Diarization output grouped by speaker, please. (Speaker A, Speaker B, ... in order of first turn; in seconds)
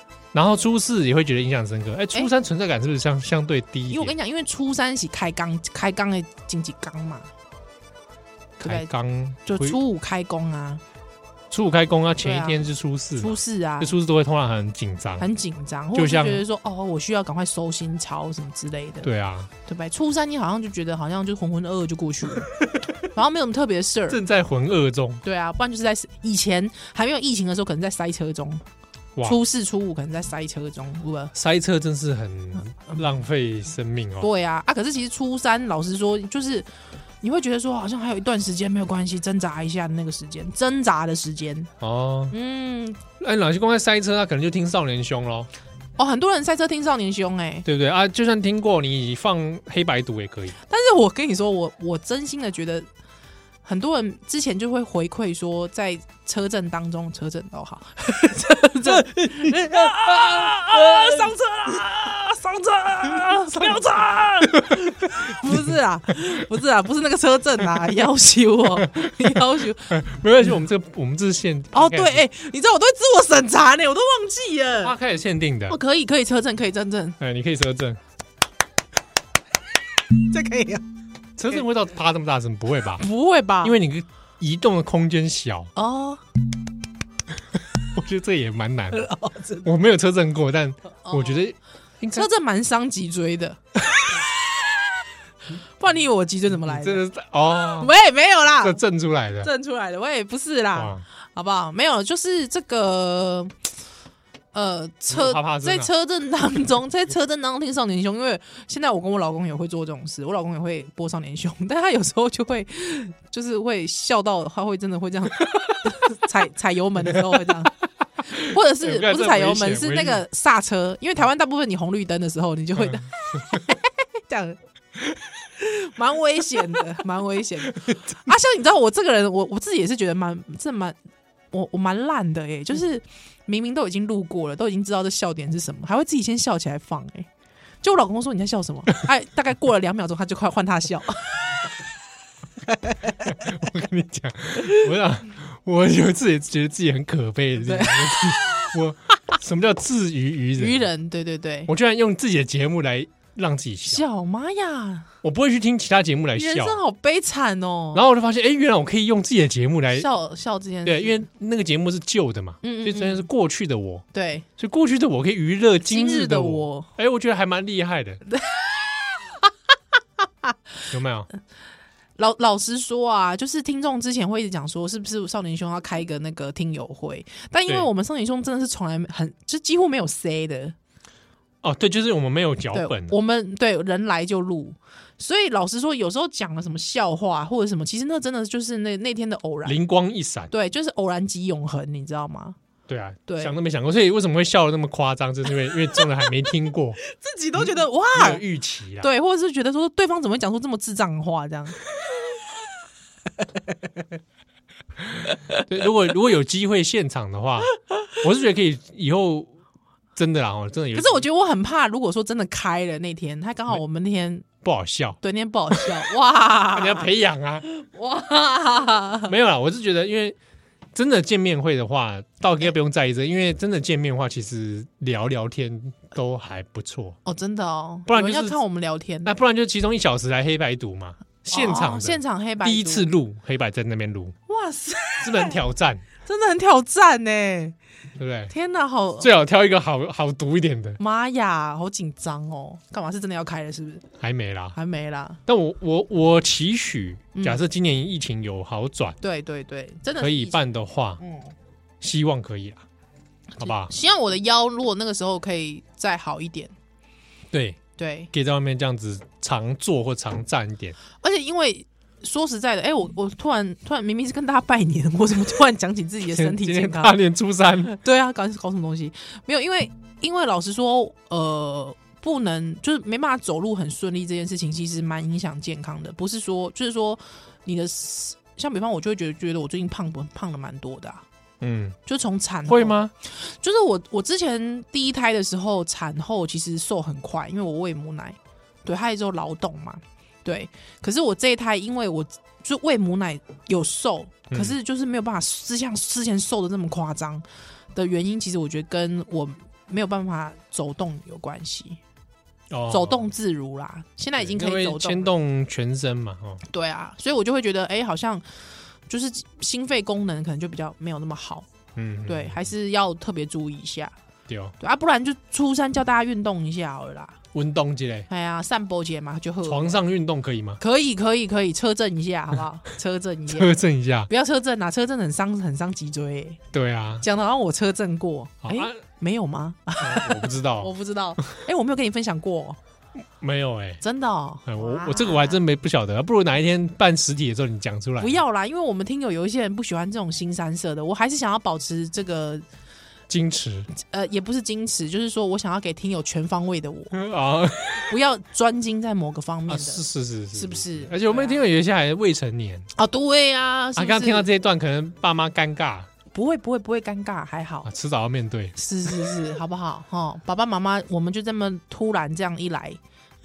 Speaker A: 0.3-4.1, 8.6-9.8, 11.5-15.3, 15.9-16.4, 19.0-19.5, 24.1-25.2, 31.3-34.3, 41.8-42.3, 43.2-45.5, 47.6-50.5, 58.9-61.3, 68.8-69.1, 69.9-72.2, 74.8-75.8, 77.2-78.0, 81.4-83.0, 83.6-85.7, 87.7-92.3, 96.6-97.9, 98.6-99.5, 100.7-101.0, 105.1-105.9, 118.5-120.2, 122.8-123.6, 143.2-150.9, 151.7-154.0, 155.2-156.8, 157.9-160.1, 160.8-164.0, 164.6-168.2, 170.9-171.3, 181.6-183.1, 189.6-190.5, 192.9-197.0, 197.6-199.1, 205.2-209.5, 210.2-211.2, 214.6-215.2, 215.7-216.1, 216.7-217.6, 219.3-220.4, 220.9-227.2, 228.1-228.6, 229.2-234.3, 235.2-236.0, 238.2-238.5, 239.2-241.0, 244.2-244.8, 245.5-249.2, 250.2-251.2, 252.0-252.8, 253.6-253.9, 257.5-257.8, 258.3-260.9, 266.2-268.0, 281.6-282.0, 282.7-283.1, 294.5-294.8, 302.7-303.3, 304.4-306.6, 311.9-312.6, 314.5-314.7, 317.5-318.3, 319.6-320.8, 323.5-324.3, 326.7-327.2, 328.6-328.9, 330.0-330.9, 333.4-334.0, 334.6-338.4, 343.3-343.9, 347.1-348.1, 349.7-352.9, 353.9-356.1, 357.8-358.8
Speaker B: 3.9-7.3, 8.6-8.9, 9.4-10.8, 12.2-12.6, 13.2-13.9, 15.2-19.1, 19.6-22.5, 23.1-24.2, 25.2-28.6, 29.2-31.3, 34.2-36.7, 37.2-41.7, 42.3-43.0, 46.0-47.6, 50.7-52.9, 53.6-70.0, 71.7-74.9, 75.7-77.2, 80.2-80.8, 83.0-83.8, 85.7-86.2, 89.0-89.7, 91.1-91.4, 92.1-94.9, 95.5-97.0, 97.6-98.8, 99.4-103.6, 104.5-117.8, 118.3-124.6, 125.4-131.0, 131.5-137.3, 137.8-141.4, 147.6-148.8, 150.6-151.7, 153.8-155.1, 156.3-158.1, 159.9-161.2, 162.6-163.3, 164.1-164.4, 165.8-166.9, 168.3-169.5, 172.2-180.7, 182.7-189.8, 190.5-192.6, 193.3-193.5, 197.0-198.4, 199.0-201.8, 210.9-214.4, 215.2-217.1, 217.6-219.3, 227.2-229.4, 231.5-233.1, 234.5-235.6, 236.2-237.8, 238.5-239.3, 241.0-244.1, 244.7-245.4, 247.3-247.6, 249.2-250.6, 251.2-251.5, 253.5-256.7, 258.0-258.3, 261.2-267.2, 267.9-281.2, 282.1-302.0, 302.9-305.3, 306.7-308.5, 309.1-311.7, 312.3-314.1, 314.8-317.4, 318.3-320.0, 320.8-323.7, 324.3-326.6, 327.2-332.8, 334.0-335.6, 338.2-342.6, 343.9-347.1, 347.9-351.6, 352.9-354.5, 356.3-357.9, 358.7-363.0